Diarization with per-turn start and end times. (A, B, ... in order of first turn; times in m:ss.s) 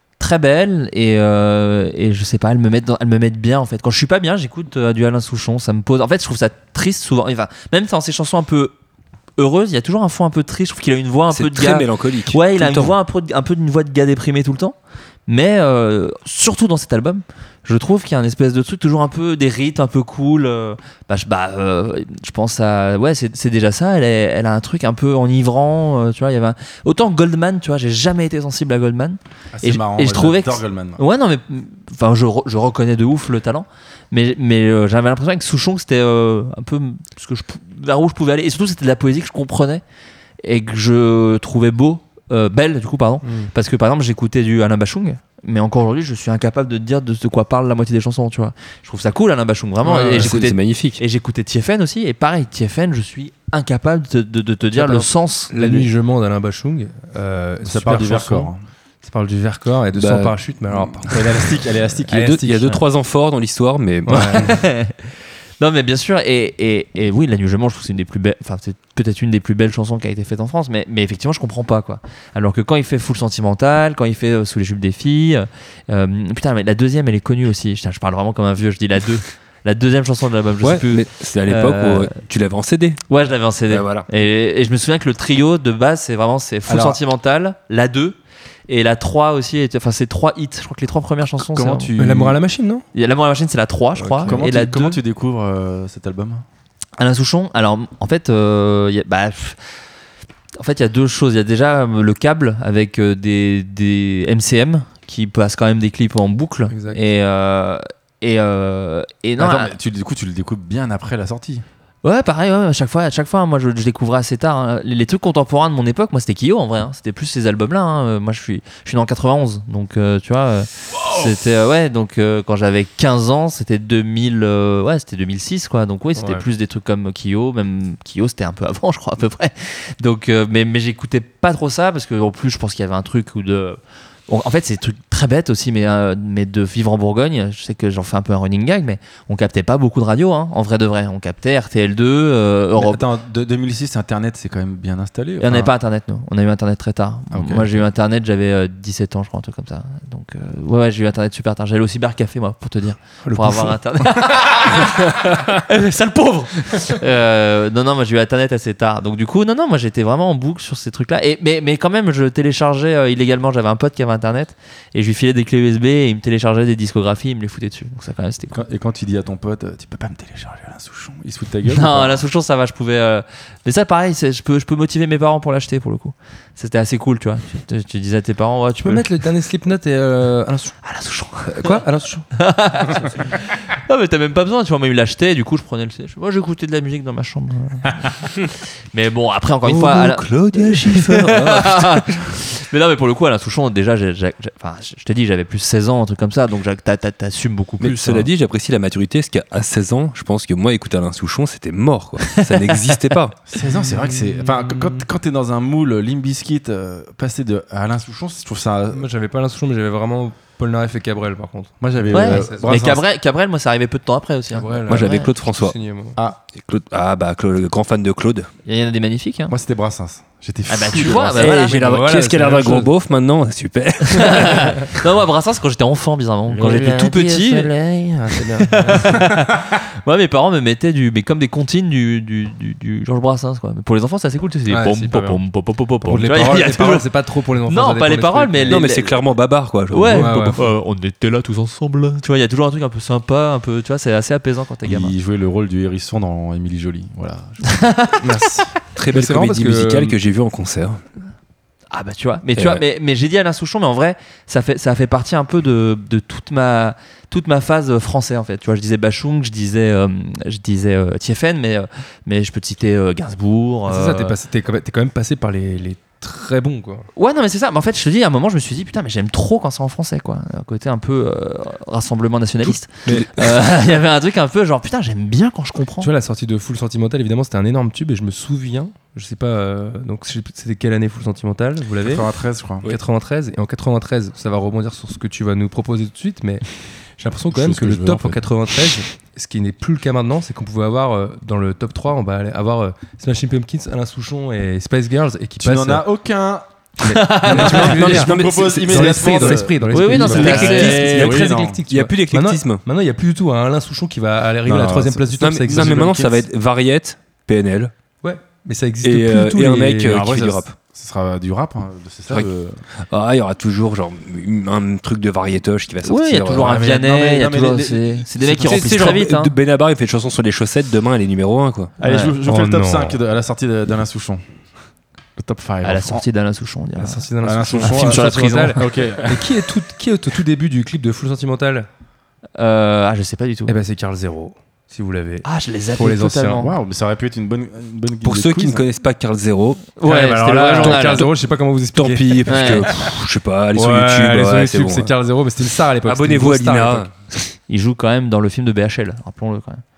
0:00.2-0:08.7 A
0:09.4-0:14.8 A
0:11.3-0:13.0 B
0:15.3-0:39.8 A
0:29.5-0:31.0 C
0:40.4-0:55.9 A
0:43.2-0:43.5 D
0:49.8-0:50.3 D
0:50.2-0:51.0 B
0:54.7-0:58.5 D
0:57.6-0:58.6 C
0:59.0-1:02.8 D
1:00.0-1:00.3 B
1:01.0-1:02.6 C
1:02.1-1:04.5 B
1:04.1-1:04.5 D
1:04.1-1:05.0 A
1:05.6-1:22.1 A
1:20.6-1:23.0 B
1:23.1-1:28.2 A
1:23.7-1:24.1 B
1:26.7-1:27.0 C
1:28.7-1:31.9 A
1:31.4-1:32.4 C
1:32.0-1:32.8 D
1:32.9-1:35.0 A
1:34.0-1:34.4 D
1:34.3-1:36.4 C
1:37.0-1:39.6 A
1:40.6-1:49.7 A
1:46.7-1:47.0 D
1:49.4-1:51.6 C
1:52.0-2:23.0 A
2:06.2-2:06.4 D
2:22.8-2:25.7 C
2:25.4-2:48.6 A
2:27.3-2:27.8 C
2:33.2-2:34.1 D
2:48.5-2:52.2 C
2:51.7-2:59.1 A
2:58.8-3:00.8 D
3:00.8-3:18.3 A
3:01.4-3:02.3 D
3:09.7-3:11.6 D
3:11.3-3:11.8 B
3:17.8-3:23.4 B
3:22.4-3:23.0 A
3:23.5-3:29.1 C
3:23.6-3:25.0 D
3:28.9-3:32.7 D
3:31.8-3:33.0 C
3:32.1-3:35.3 A
3:34.5-3:36.2 D
3:34.9-3:35.8 B
3:36.5-3:38.5 B
3:38.7-3:39.5 A
3:39.5-3:41.6 C
3:40.7-3:41.9 A
3:41.3-3:44.9 B
3:41.6-3:42.9 D
3:44.1-3:47.7 A
3:46.5-3:49.3 D
3:48.6-3:57.1 A
3:54.7-3:55.4 D
3:56.0-3:58.8 D
3:57.6-3:59.2 A
3:58.7-4:00.7 B
3:59.9-4:05.1 A
4:00.1-4:00.6 D
4:04.8-4:07.8 C
4:07.7-4:08.2 A
4:08.2-4:10.2 D
4:09.0-4:11.0 B
4:11.9-4:24.4 A
4:12.6-4:12.8 B
4:23.9-4:27.1 D
4:27.1-4:36.1 A
4:32.7-4:33.6 B
4:36.0-4:42.3 D
4:42.0-4:42.9 C
4:42.8-4:46.6 D
4:47.2-4:56.0 D
4:47.5-4:48.4 C
4:55.6-4:56.7 C
4:57.0-4:58.2 A
4:57.0-5:06.1 D
4:57.5-5:01.8 C
4:57.5-4:59.6 B
4:59.9-5:01.2 A
5:00.1-5:02.8 B
5:04.6-5:06.4 C
5:05.4-5:07.9 B
5:08.2-5:10.3 D
5:09.0-5:10.7 B
5:10.0-5:12.8 C
5:13.1-5:16.8 B
5:16.0-5:19.5 A
5:16.5-5:19.2 C
5:18.6-5:21.9 B
5:22.0-5:24.4 C
5:22.0-5:22.4 A
5:22.4-5:23.2 D
5:25.4-5:26.2 C
5:25.8-5:27.3 A
5:27.0-5:31.9 D
5:27.4-5:29.5 C
5:27.8-5:28.8 A
5:32.6-5:33.7 A
5:33.7-5:35.4 D
5:35.4-5:36.7 A
5:36.0-5:36.7 D
5:36.6-5:38.8 C
5:38.2-5:39.9 B
5:40.0-5:41.3 A
5:40.0-5:43.0 D
5:40.8-5:41.3 B
5:42.0-5:45.1 B
5:42.5-5:42.9 A
5:43.7-5:47.1 D
5:46.0-5:47.1 B
5:47.7-5:49.8 A